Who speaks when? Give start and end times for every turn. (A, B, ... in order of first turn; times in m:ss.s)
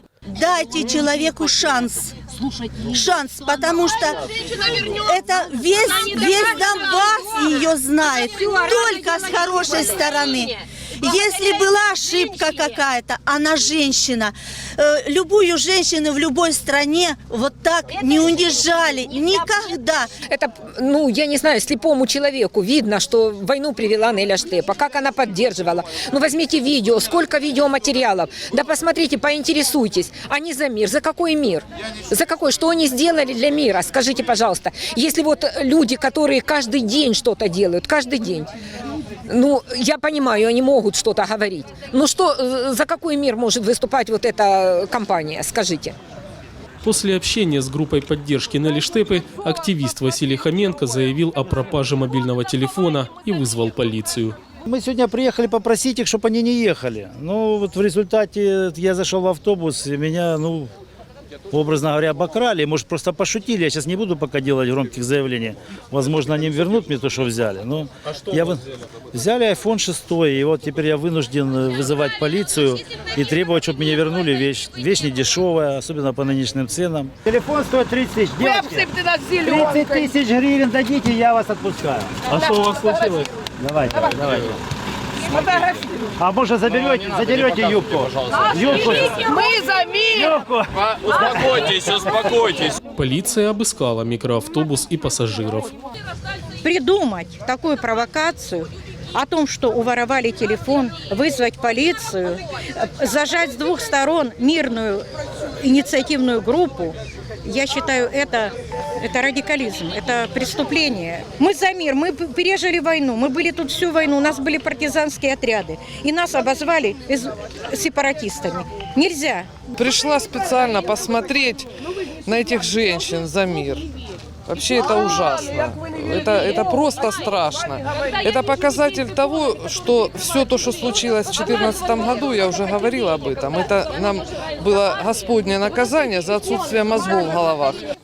0:00.3-0:20.1 A
0:20.3-0:38.5 B
0:39.3-0:46.0 B
0:46.8-0:54.4 C
0:54.7-1:00.7 D
1:01.5-1:24.6 D
1:25.3-1:32.7 D
1:33.0-1:35.7 C
1:36.6-1:45.0 E
1:45.6-1:59.5 E
1:59.7-2:01.7 F
2:02.2-2:03.9 F
2:04.5-2:17.9 F